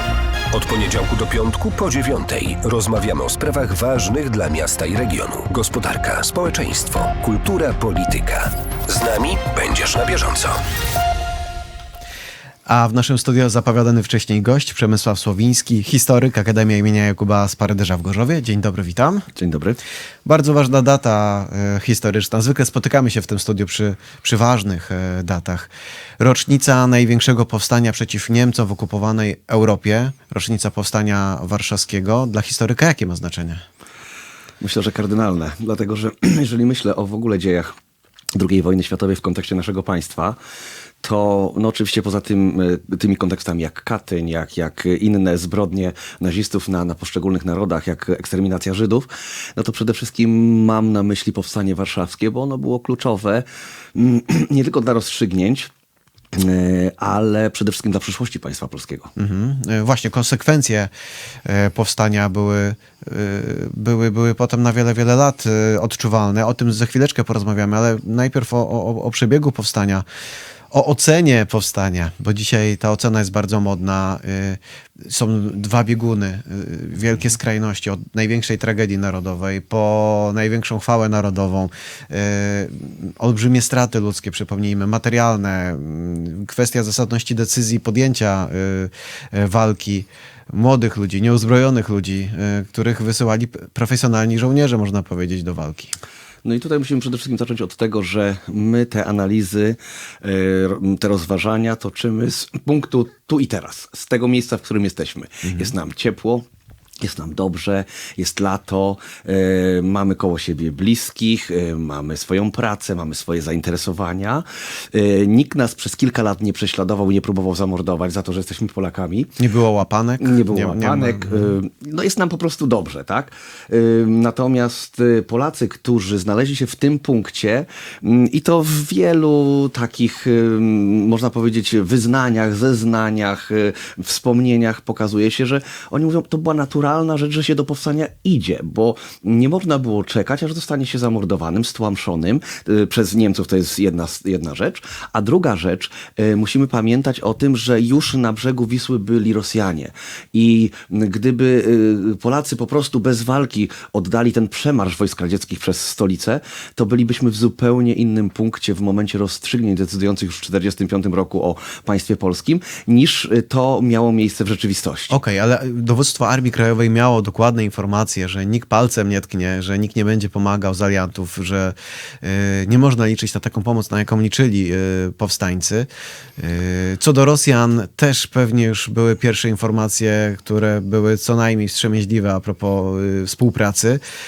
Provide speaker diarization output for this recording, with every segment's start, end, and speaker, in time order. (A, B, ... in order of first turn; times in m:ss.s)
0:00.5-0:10.6 A
0:12.6-0:19.2 B
0:19.3-0:19.8 C
0:20.2-0:33.6 B
0:34.6-0:37.7 C
0:38.3-0:40.4 C
0:41.0-0:55.7 C
0:56.3-0:59.1 C
0:59.2-1:00.9 B
1:01.4-1:10.0 B
1:10.7-1:35.9 B
1:36.4-1:46.4 C
1:45.4-1:45.7 B
1:47.0-1:59.4 C
1:59.4-2:01.6 B
2:00.2-2:45.2 C
2:45.1-3:04.0 B